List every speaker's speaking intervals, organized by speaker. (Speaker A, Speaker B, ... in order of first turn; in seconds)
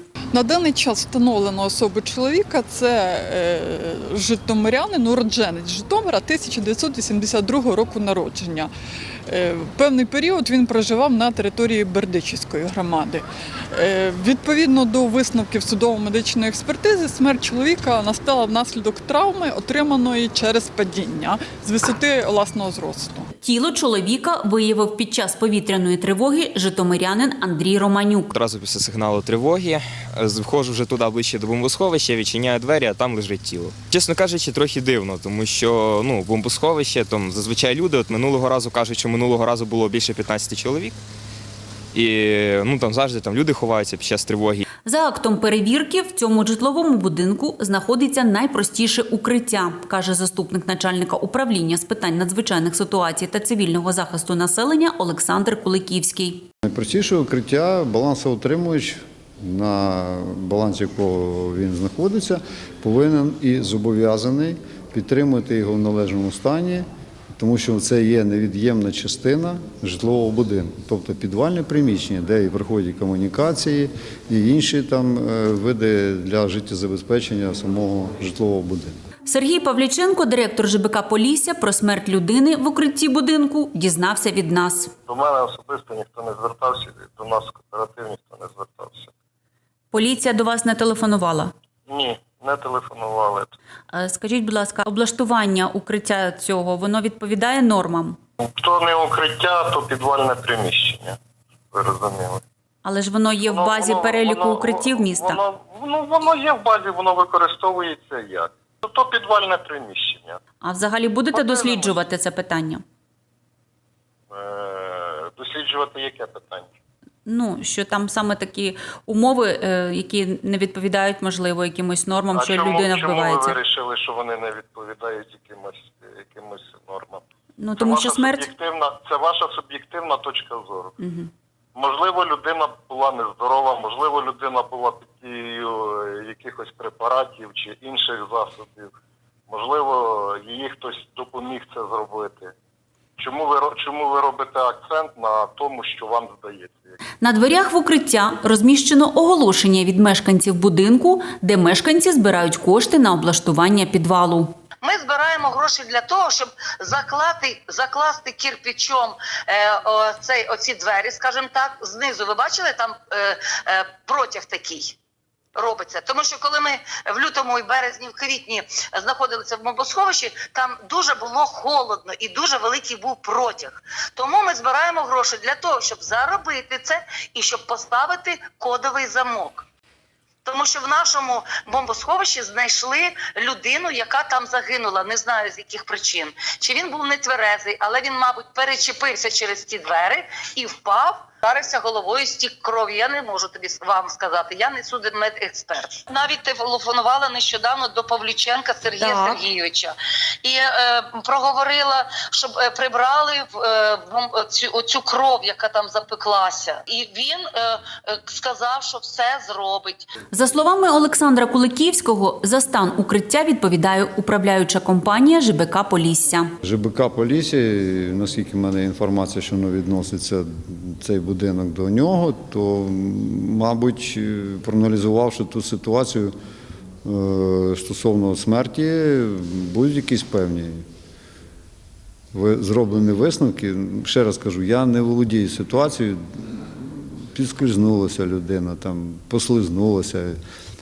Speaker A: 0.3-8.7, 9.3-23.3
Speaker B: 23.4-28.3, 44.8-56.4, 79.2-84.9, 89.9-91.5, 93.9-98.2, 102.8-105.4, 110.6-112.8, 117.2-123.5, 127.6-128.5, 131.0-131.3, 147.2-154.5, 210.3-216.5
Speaker C: 28.3-41.0, 41.9-44.6
Speaker D: 56.6-66.8, 67.4-79.0, 216.6-226.3, 227.0-230.8, 232.3-236.2, 237.2-240.4
Speaker E: 85.1-89.1, 91.9-93.5, 98.4-101.2, 101.7-102.4, 103.4-110.4, 111.3-112.0, 114.3-116.7, 122.3-127.2, 127.7-130.9, 131.7-138.9, 139.5-142.5, 143.2-146.9
Speaker F: 154.8-164.9, 165.6-179.6, 180.4-210.1